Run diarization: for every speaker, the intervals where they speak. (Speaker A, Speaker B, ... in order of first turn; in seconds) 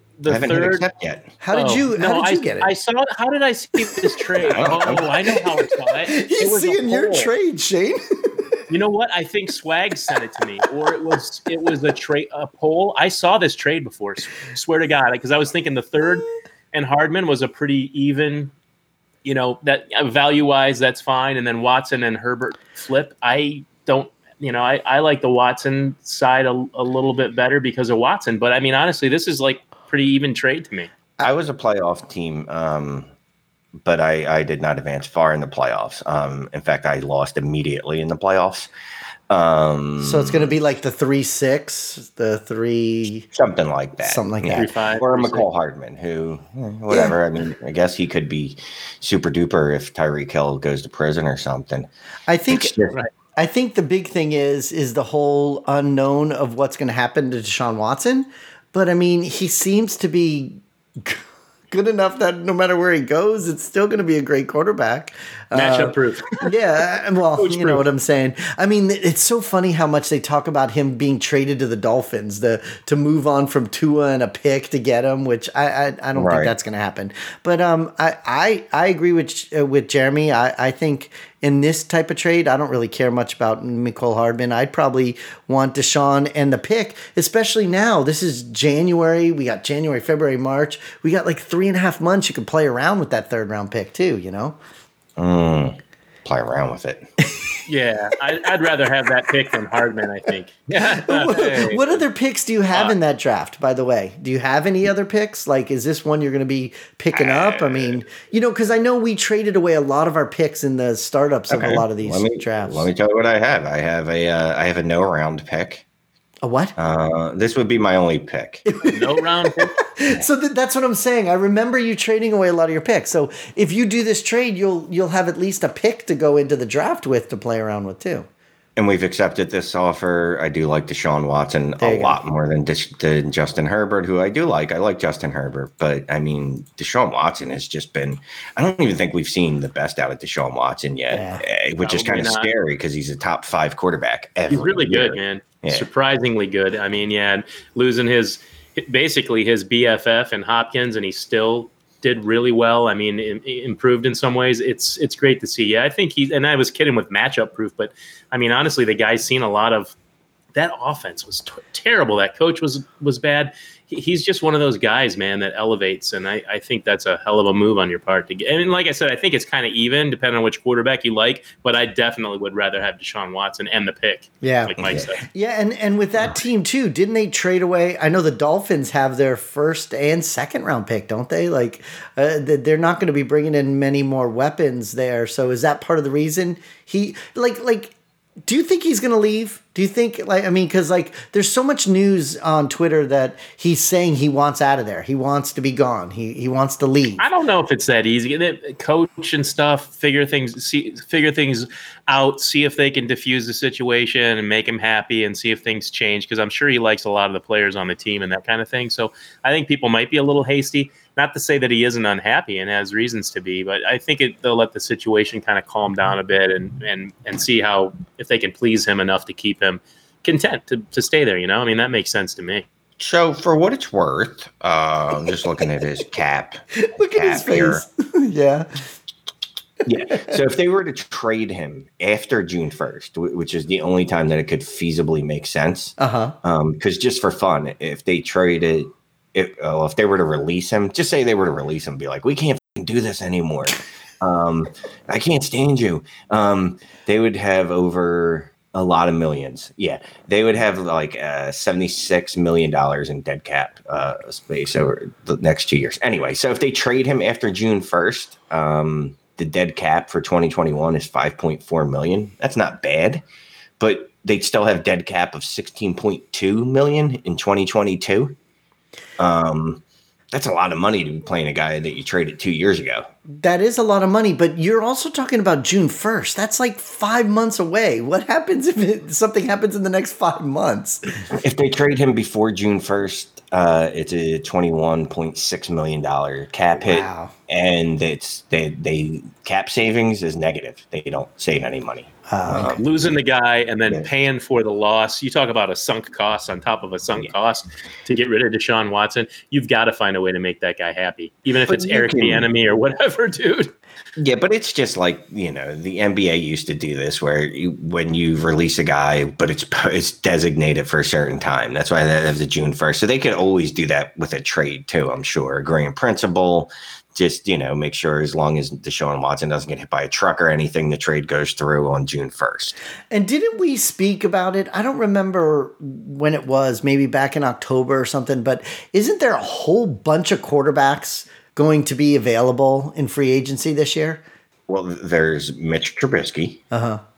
Speaker A: 0.2-0.9, 1.5-7.3, 8.7-18.5, 19.2-30.9, 44.5-45.5, 65.5-66.5, 67.4-67.8, 97.7-102.0, 118.8-119.8, 141.8-142.5, 144.5-159.9, 160.6-175.2, 197.2-222.7, 292.8-303.8
Speaker B: 0.3-1.3, 4.4-5.1, 31.2-33.1, 33.8-38.7, 39.3-40.5, 43.3-51.9, 52.5-53.0, 76.2-76.5, 95.2-97.1, 107.1-108.0, 111.5-115.8, 116.8-118.7, 128.8-145.9, 223.0-227.8, 229.8-263.2, 263.8-268.4, 269.2-273.1, 281.4-292.9, 301.7-302.5, 304.2-322.8, 334.7-336.6
Speaker C: 1.4-2.7, 5.3-8.6, 40.0-43.3, 44.0-44.7, 46.9-47.1, 52.3-52.7, 53.4-94.6, 100.9-112.9, 116.4-116.8, 118.7-128.3, 131.8-132.2, 141.1-141.4, 174.4-187.9, 188.5-197.3, 226.8-228.8, 236.0-236.4, 273.4-281.2, 286.8-287.3, 292.3-292.7, 323.1-334.2, 336.7-337.0